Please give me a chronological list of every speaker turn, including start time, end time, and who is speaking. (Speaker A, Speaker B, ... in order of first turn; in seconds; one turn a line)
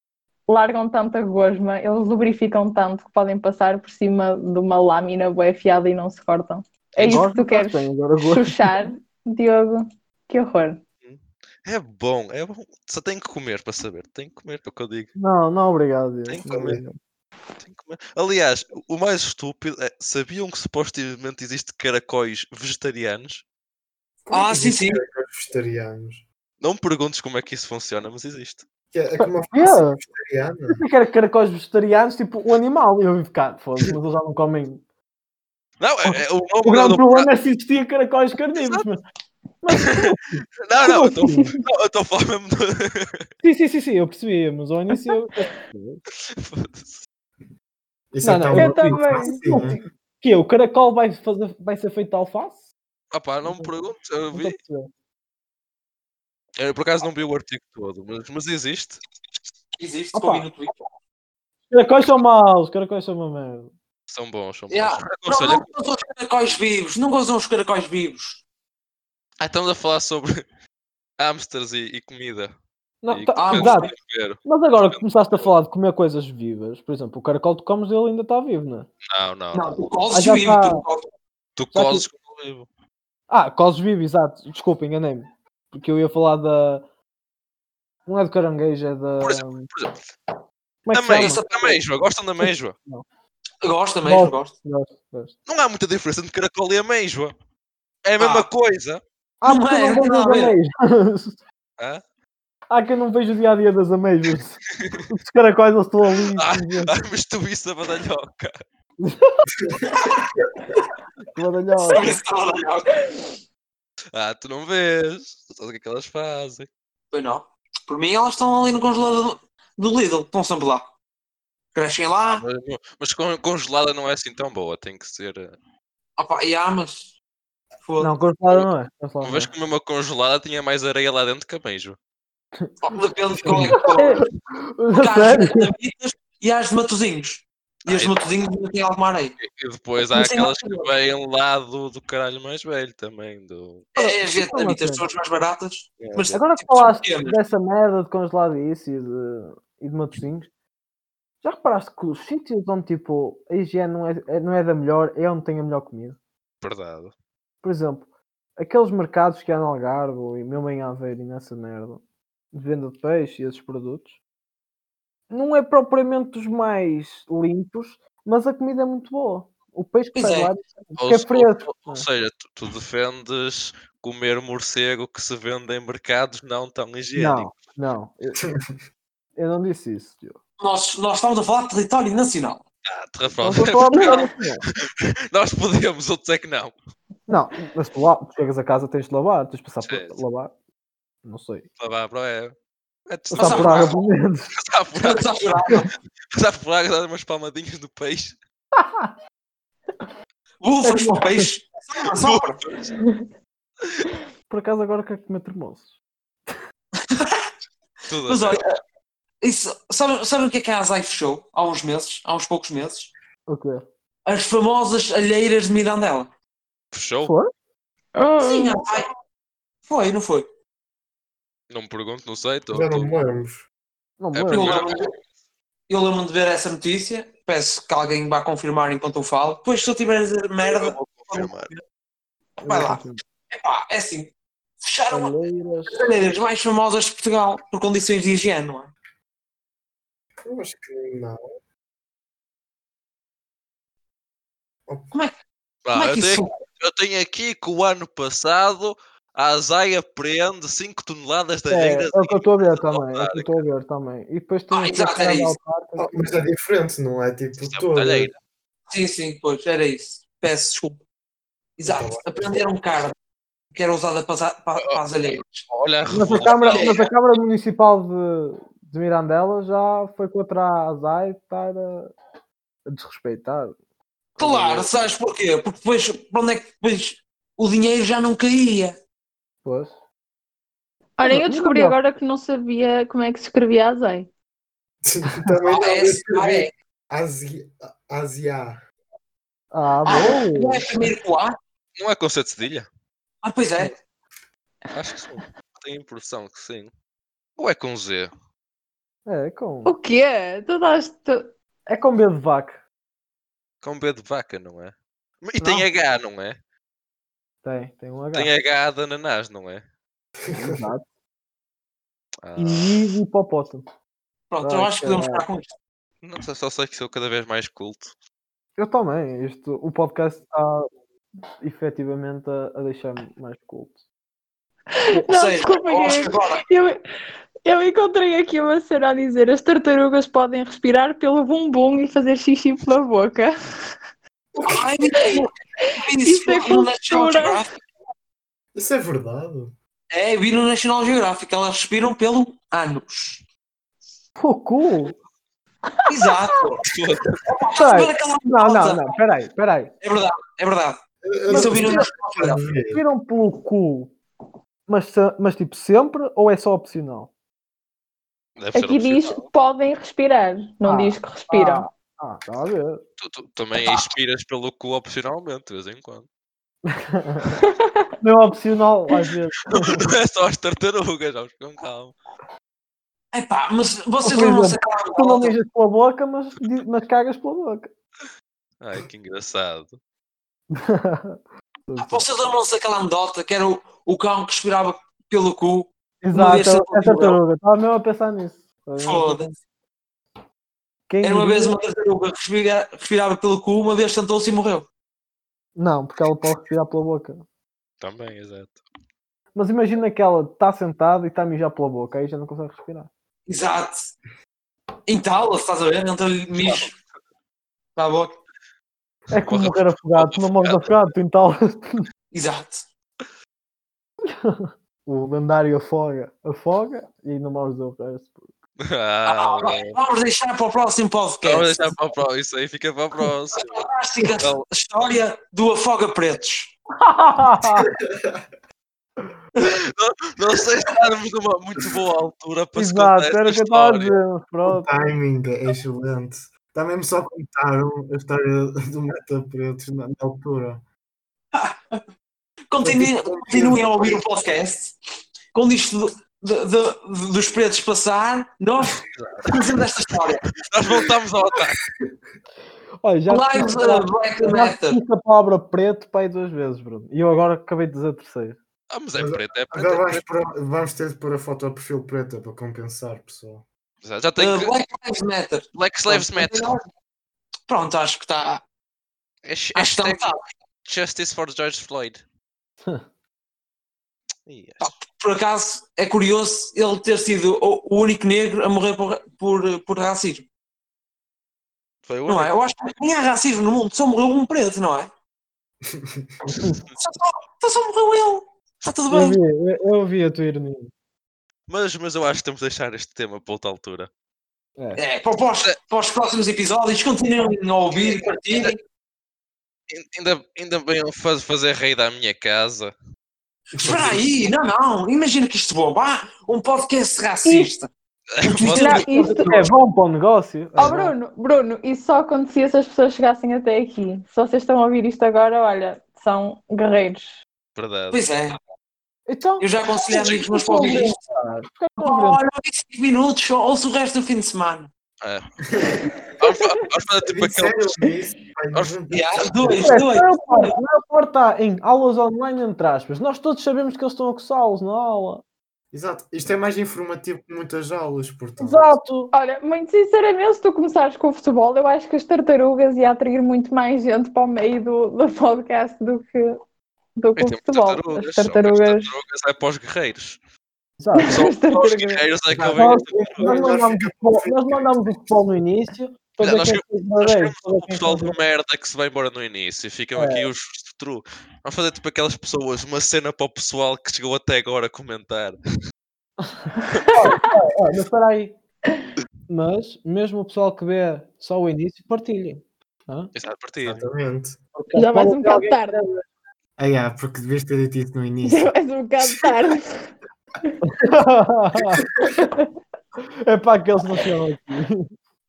Speaker A: 0.5-10.8
Speaker B: 7.0-7.2
Speaker C: 7.0-8.7
Speaker B: 11.0-15.1
Speaker C: 15.2-17.0
Speaker D: 16.4-16.9
Speaker B: 17.6-23.4
Speaker D: 24.2-26.2
Speaker E: 24.3-25.0
Speaker B: 26.6-28.6
Speaker D: 28.9-30.8
Speaker C: 29.2-30.0
Speaker C: 30.7-34.8
Speaker B: 35.8-37.3
Speaker C: 36.0-39.0
Speaker B: 38.5-38.9
Speaker C: 39.6-41.6
Speaker B: 39.7-40.1
Speaker B: 40.6-43.2
Speaker C: 43.4-46.0
Speaker B: 46.3-47.0
Speaker D: 48.1-49.8
Speaker C: 48.2-52.6
Speaker A: 48.5-49.4
Speaker B: 53.1-54.6
Speaker C: 53.4-53.7
Speaker C: 54.3-54.9
Speaker B: 56.6-59.0
Speaker E: 59.8-60.8
Speaker C: 60.1-60.5
Speaker C: 61.7-63.7
Speaker B: 64.1-65.7
Speaker E: 64.7-68.4
Speaker B: 69.4-70.4
Speaker B: 71.2-72.5
Speaker C: 73.0-73.9
Speaker B: 73.1-75.4
Speaker E: 73.3-73.9
Speaker C: 74.4-78.9
Speaker B: 79.1-79.8
Speaker E: 79.5-81.1
Speaker C: 80.1-80.8
Speaker B: 81.6-82.7
Speaker C: 81.7-82.0
Speaker C: 83.3-86.8
Speaker C: 88.1-89.7
Speaker B: 89.2-90.0
Speaker C: 90.8-91.4
Speaker B: 90.9-92.8
Speaker E: 91.1-91.8
Speaker C: 92.4-93.0
Speaker E: 93.6-94.5
Speaker C: 94.0-95.3
Speaker B: 95.5-97.3
Speaker B: 98.0-99.0
Speaker E: 98.2-98.5
Speaker C: 99.4-101.4
Speaker E: 99.4-100.5
Speaker C: 102.7-106.9
Speaker B: 106.3-108.6
Speaker C: 109.0-109.5
Speaker D: 109.7-110.1
Speaker C: 111.3-112.1
Speaker E: 111.9-113.0
Speaker B: 114.1-116.7
Speaker E: 117.1-120.9
Speaker E: 121.7-122.4
Speaker B: 122.3-125.5
Speaker E: 126.2-127.1
Speaker E: 127.8-128.2
Speaker C: 128.0-129.5
Speaker B: 129.2-132.0
Speaker E: 132.8-134.2
Speaker C: 133.5-135.7
Speaker A: 133.9-134.2
Speaker E: 134.9-139.4
Speaker B: 137.9-138.2
Speaker B: 139.4-143.9
Speaker E: 140.0-140.9
Speaker E: 143.9-147.4
Speaker C: 143.9-145.1
Speaker B: 146.0-146.3
Speaker C: 146.3-150.5
Speaker C: 151.4-156.2
Speaker B: 156.6-157.1
Speaker C: 157.6-158.1
Speaker C: 158.6-162.0
Speaker C: 162.5-164.1
Speaker C: 165.3-172.0
Speaker E: 170.1-170.5
Speaker B: 171.0-177.6
Speaker C: 177.1-178.4
Speaker D: 178.4-178.6
Speaker C: 179.4-180.4
Speaker E: 180.6-182.6
Speaker B: 182.8-184.3
Speaker C: 183.4-184.6
Speaker A: 183.6-184.3
Speaker B: 184.8-186.7
Speaker C: 187.3-190.5
Speaker B: 189.8-190.2
Speaker C: 191.2-191.7
Speaker B: 191.8-192.5
Speaker B: 193.1-194.0
Speaker C: 193.3-194.5
Speaker E: 193.4-194.0
Speaker B: 194.5-195.4
Speaker E: 195.0-195.9
Speaker B: 196.3-198.4
Speaker C: 198.8-199.1
Speaker E: 200.6-202.6
Speaker C: 200.8-201.4
Speaker B: 202.2-202.9
Speaker A: 202.9-203.3
Speaker C: 204.5-205.9
Speaker E: 207.1-207.5
Speaker B: 208.1-208.6
Speaker E: 208.2-208.7
Speaker E: 209.4-213.1
Speaker C: 213.5-213.8
Speaker E: 214.2-216.3
Speaker B: 216.9-217.3
Speaker C: 217.2-217.5
Speaker A: 218.2-218.8
Speaker E: 218.4-219.1
Speaker E: 219.8-220.4
Speaker B: 221.7-223.1
Speaker D: 222.7-223.7
Speaker C: 224.2-224.8
Speaker B: 224.3-225.1
Speaker E: 224.5-225.1
Speaker E: 225.9-231.8
Speaker B: 230.6-231.7
Speaker C: 232.6-233.2
Speaker E: 232.7-235.3
Speaker C: 235.1-236.1
Speaker E: 235.9-238.9
Speaker D: 240.4-241.4
Speaker B: 245.8-253.6
Speaker E: 245.9-246.5
Speaker C: 251.7-256.4
Speaker E: 254.7-255.6
Speaker D: 256.0-258.3
Speaker B: 257.6-258.4
Speaker E: 258.9-261.0
Speaker E: 261.8-263.1
Speaker D: 261.8-262.6
Speaker E: 263.7-265.7
Speaker B: 264.9-267.1
Speaker C: 266.1-272.1
Speaker E: 266.4-266.9
Speaker C: 272.9-273.8
Speaker B: 274.4-274.9
Speaker E: 274.4-278.9
Speaker C: 279.6-279.9
Speaker A: 281.2-284.3
Speaker C: 281.2-282.0
Speaker D: 285.0-288.8
Speaker E: 285.6-286.7
Speaker C: 289.7-291.0
Speaker E: 290.1-291.5
Speaker B: 292.0-292.9
Speaker E: 293.4-293.9
Speaker B: 294.9-296.9
Speaker B: 297.6-298.3
Speaker C: 299.2-299.9
Speaker A: 299.8-301.5
Speaker C: 301.9-302.8
Speaker B: 303.8-306.6
Speaker C: 305.6-305.9
Speaker C: 307.6-308.5
Speaker B: 308.3-309.8
Speaker D: 310.4-310.8
Speaker C: 310.5-311.1
Speaker B: 312.4-313.1
Speaker C: 312.6-313.9
Speaker E: 314.5-315.7
Speaker C: 314.6-315.4
Speaker B: 316.2-318.1
Speaker C: 318.8-320.9
Speaker C: 321.6-324.0
Speaker A: 324.9-327.0
Speaker E: 325.2-326.6
Speaker A: 327.6-333.5
Speaker D: 334.5-334.9
Speaker E: 334.6-337.7
Speaker A: 335.2-337.6
Speaker D: 338.7-339.7
Speaker E: 340.1-343.4
Speaker C: 344.4-345.1
Speaker E: 346.1-346.8
Speaker B: 346.9-347.4
Speaker E: 347.4-349.2
Speaker C: 347.7-349.9
Speaker E: 350.0-352.6
Speaker D: 351.2-353.0
Speaker C: 351.5-352.0
Speaker C: 352.9-354.1
Speaker C: 354.9-357.3
Speaker B: 358.6-359.5
Speaker A: 358.7-361.9
Speaker C: 360.8-363.0
Speaker B: 363.2-366.2
Speaker E: 363.8-364.0
Speaker C: 366.9-367.6
Speaker A: 367.6-367.9
Speaker C: 368.2-370.0
Speaker B: 369.7-372.1
Speaker E: 373.3-375.6
Speaker C: 374.2-377.9
Speaker B: 378.8-380.0
Speaker C: 380.7-382.2
Speaker E: 382.0-387.4
Speaker C: 386.2-389.6
Speaker E: 389.0-389.5
Speaker C: 391.1-391.8
Speaker E: 391.2-394.9
Speaker C: 395.8-397.4
Speaker B: 398.0-398.8
Speaker C: 399.5-403.1
Speaker E: 403.5-404.1
Speaker E: 405.1-406.9
Speaker E: 407.9-408.4
Speaker C: 409.3-412.0
Speaker B: 409.4-410.9
Speaker E: 412.3-412.9
Speaker C: 414.3-418.5
Speaker B: 418.8-420.0
Speaker E: 419.3-421.9
Speaker B: 421.4-423.9
Speaker E: 423.5-426.7
Speaker C: 427.0-427.9
Speaker D: 427.8-428.4
Speaker B: 429.6-434.1
Speaker C: 432.7-435.1
Speaker D: 434.6-440.8
Speaker E: 442.7-444.9
Speaker D: 442.8-444.2
Speaker E: 445.5-450.5
Speaker B: 449.0-449.6
Speaker B: 450.7-451.8
Speaker C: 453.0-458.6
Speaker E: 453.3-455.0
Speaker B: 458.9-460.2
Speaker D: 459.1-463.6
Speaker B: 464.0-464.7
Speaker E: 464.4-466.8
Speaker B: 465.7-466.7
Speaker E: 467.7-468.6
Speaker B: 469.4-470.3
Speaker E: 469.7-470.4
Speaker B: 470.8-472.2
Speaker B: 474.4-474.9
Speaker E: 474.8-480.4
Speaker B: 482.1-482.5
Speaker E: 482.3-485.1
Speaker D: 485.9-486.2
Speaker E: 487.0-489.4
Speaker C: 489.1-490.9
Speaker B: 491.7-494.1
Speaker E: 494.9-498.8
Speaker B: 499.9-502.9
Speaker E: 503.7-507.9
Speaker D: 503.8-504.2
Speaker A: 507.4-507.7
Speaker B: 508.4-509.0
Speaker E: 508.4-509.6
Speaker A: 508.7-509.6
Speaker C: 509.1-511.1
Speaker A: 510.8-517.4
Speaker B: 517.8-518.2
Speaker E: 518.1-518.6
Speaker C: 519.3-522.4
Speaker E: 519.6-521.2
Speaker E: 522.0-524.9
Speaker B: 525.2-525.5
Speaker B: 526.4-528.0
Speaker A: 526.5-526.8
Speaker D: 527.2-529.9
Speaker E: 529.1-530.8
Speaker C: 529.8-535.4
Speaker D: 535.9-538.9
Speaker C: 538.6-539.3
Speaker A: 539.3-546.6
Speaker A: 547.1-549.1
Speaker B: 547.4-550.4
Speaker C: 551.0-551.3
Speaker A: 551.1-552.2
Speaker B: 551.2-553.7
Speaker D: 552.5-555.4
Speaker C: 552.6-558.4
Speaker B: 556.4-565.6
Speaker C: 560.1-560.5
Speaker A: 567.0-567.5
Speaker C: 567.1-568.5
Speaker C: 569.5-573.3
Speaker B: 573.4-574.0
Speaker D: 573.8-574.6
Speaker C: 574.8-576.2
Speaker A: 574.9-576.0
Speaker D: 576.8-579.5
Speaker A: 578.4-580.1
Speaker C: 580.9-582.0
Speaker A: 582.3-582.7
Speaker C: 583.4-585.1